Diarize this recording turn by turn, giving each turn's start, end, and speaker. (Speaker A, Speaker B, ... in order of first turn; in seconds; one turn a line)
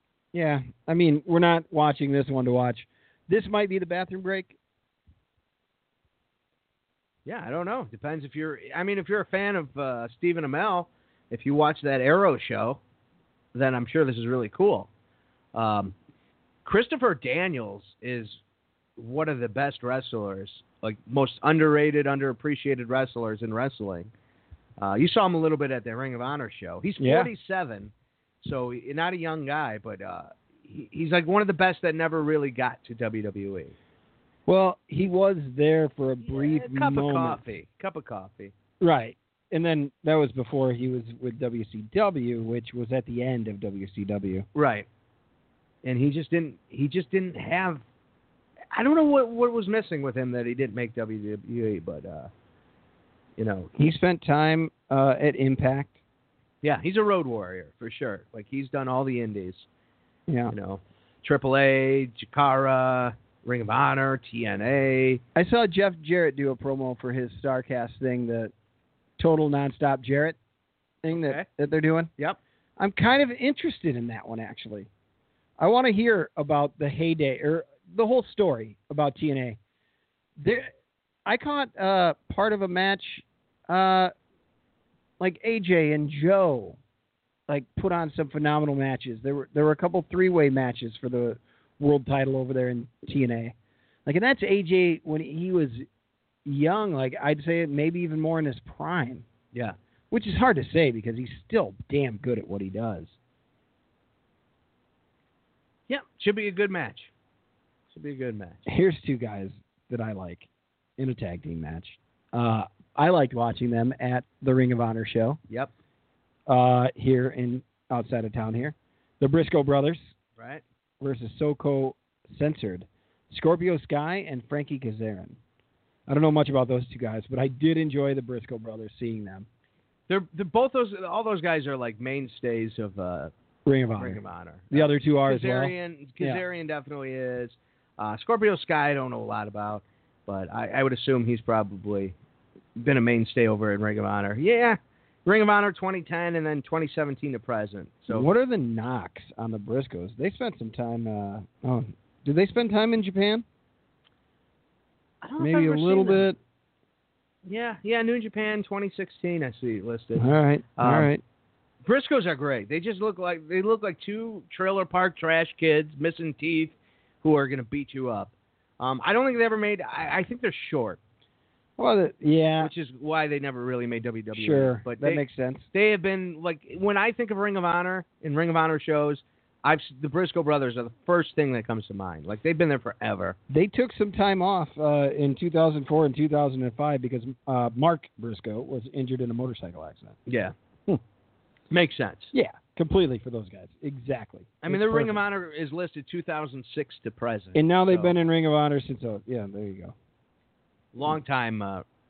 Speaker A: 0.3-4.5
Speaker B: 7.2-12.8
Speaker B: 13.5-14.9
Speaker B: 15.5-15.9
Speaker B: 16.6-18.4
Speaker B: 19.0-24.1
Speaker B: 24.8-33.7
Speaker A: 27.0-27.3
Speaker A: 34.5-37.4
Speaker B: 36.2-38.5
Speaker A: 38.8-44.5
Speaker B: 44.5-44.9
Speaker B: 45.8-47.8
Speaker B: 48.7-52.3
Speaker B: 53.4-53.7
Speaker A: 53.8-56.0
Speaker B: 56.6-59.6
Speaker A: 60.3-60.5
Speaker B: 60.5-65.2
Speaker A: 65.3-68.5
Speaker A: 69.2-70.4
Speaker A: 71.0-72.1
Speaker B: 71.1-71.5
Speaker A: 72.8-74.9
Speaker A: 75.6-79.6
Speaker A: 80.4-80.7
Speaker A: 81.2-84.1
Speaker A: 85.2-86.8
Speaker A: 87.5-93.5
Speaker A: 94.0-95.8
Speaker A: 96.5-99.2
Speaker A: 100.1-103.1
Speaker B: 105.9-107.1
Speaker B: 107.9-108.6
Speaker A: 108.7-115.4
Speaker A: 116.5-120.1
Speaker B: 120.4-120.6
Speaker A: 121.0-125.4
Speaker A: 126.1-129.5
Speaker B: 130.1-133.3
Speaker A: 133.7-136.4
Speaker B: 134.0-142.1
Speaker B: 142.8-148.3
Speaker A: 148.1-153.4
Speaker B: 155.2-156.2
Speaker A: 155.4-156.4
Speaker B: 157.4-161.1
Speaker A: 160.2-161.2
Speaker B: 161.8-171.0
Speaker A: 171.8-172.7
Speaker B: 172.6-183.4
Speaker A: 174.3-175.7
Speaker A: 183.5-190.2
Speaker B: 190.2-190.5
Speaker B: 191.7-192.3
Speaker A: 192.3-195.2
Speaker B: 194.6-198.1
Speaker A: 197.5-199.9
Speaker B: 200.9-201.8